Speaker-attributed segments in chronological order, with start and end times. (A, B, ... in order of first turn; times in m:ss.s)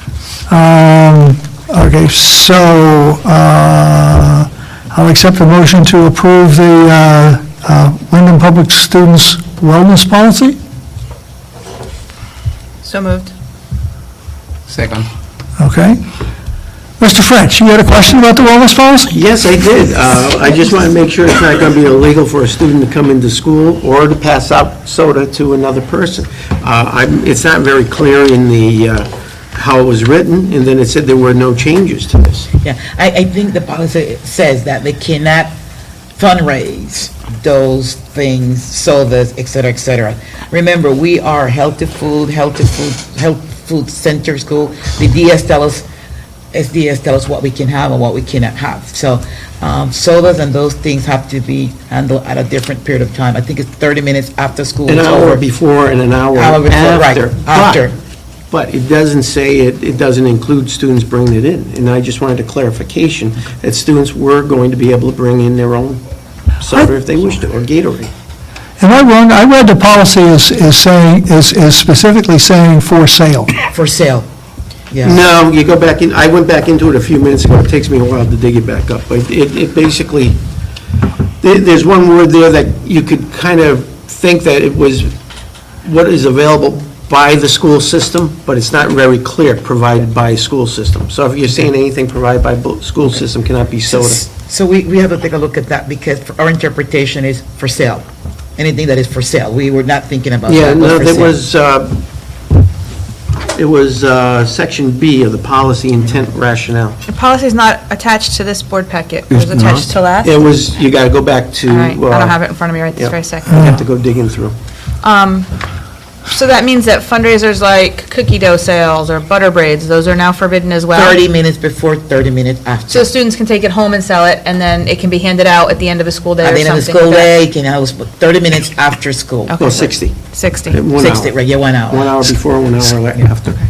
0:00.5-0:10.6 A
0:12.8-0:13.3 B
0:15.6-0:16.0 A
0:17.0-0:19.1 A
0:19.1-0:32.5 C
0:32.6-0:35.6 D
0:36.2-0:45.9 D
0:46.5-0:55.4 D
0:54.9-0:57.8 C
0:56.4-0:58.0 D
0:58.5-1:06.0 C
1:06.6-1:08.1 C
1:08.8-1:13.5 A
1:13.7-1:14.3 D
1:14.9-1:15.2 D
1:15.0-1:20.4 C
1:21.4-1:25.1 C
1:25.8-1:34.2 C
1:33.9-1:38.1 D
1:38.6-1:41.4 D
1:40.5-1:42.0 C
1:43.5-1:47.0 C
1:47.1-1:50.5 B
1:49.4-1:52.4 C
1:51.7-1:53.8 B
1:53.0-1:54.6 C
1:55.0-1:55.5 B
1:56.3-2:01.2 B
2:00.9-2:03.1 D
2:02.9-2:07.3 B
2:06.4-2:09.8 D
2:09.5-2:10.8 B
2:09.6-2:10.2 C
2:10.7-2:11.3 C
2:11.0-2:12.2 D
2:11.9-2:13.6 C